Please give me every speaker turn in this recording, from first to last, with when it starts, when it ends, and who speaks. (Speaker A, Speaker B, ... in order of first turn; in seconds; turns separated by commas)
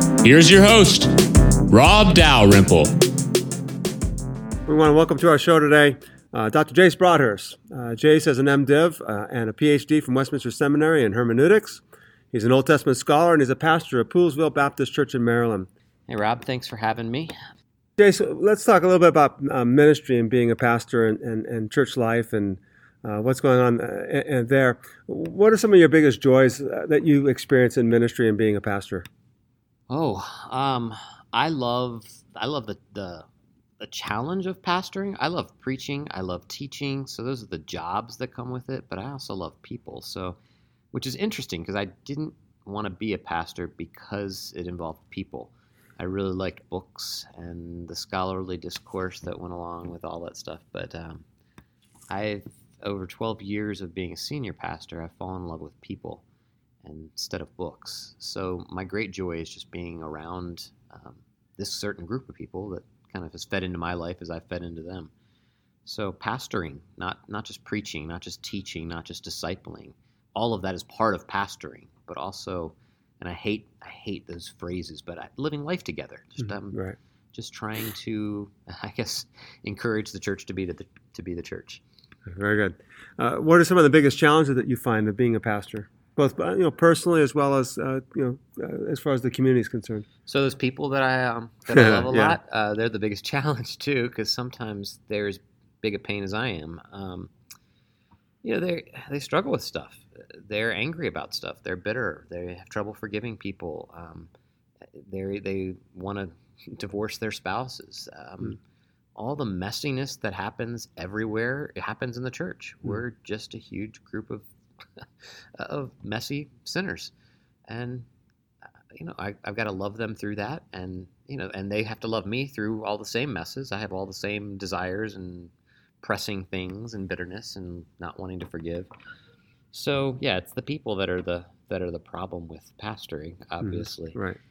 Speaker A: 0.2-1.1, Speaker A: 1.7-2.9, Speaker B: 4.7-15.7, Speaker C: 16.1-17.3, Speaker B: 18.0-29.1, Speaker C: 29.9-33.3, Speaker C: 33.8-40.4, Speaker C: 40.9-51.2, Speaker C: 52.1-56.2, Speaker C: 56.8-65.1, Speaker C: 65.8-76.8, Speaker B: 76.7-77.0, Speaker C: 77.3-81.8, Speaker B: 82.3-90.0, Speaker C: 90.2-97.3, Speaker B: 91.7-92.4, Speaker C: 98.4-104.3, Speaker C: 105.0-108.6, Speaker C: 109.2-114.5, Speaker C: 115.5-117.1, Speaker C: 117.7-118.1, Speaker C: 118.9-128.9, Speaker C: 129.7-134.2, Speaker B: 133.6-134.4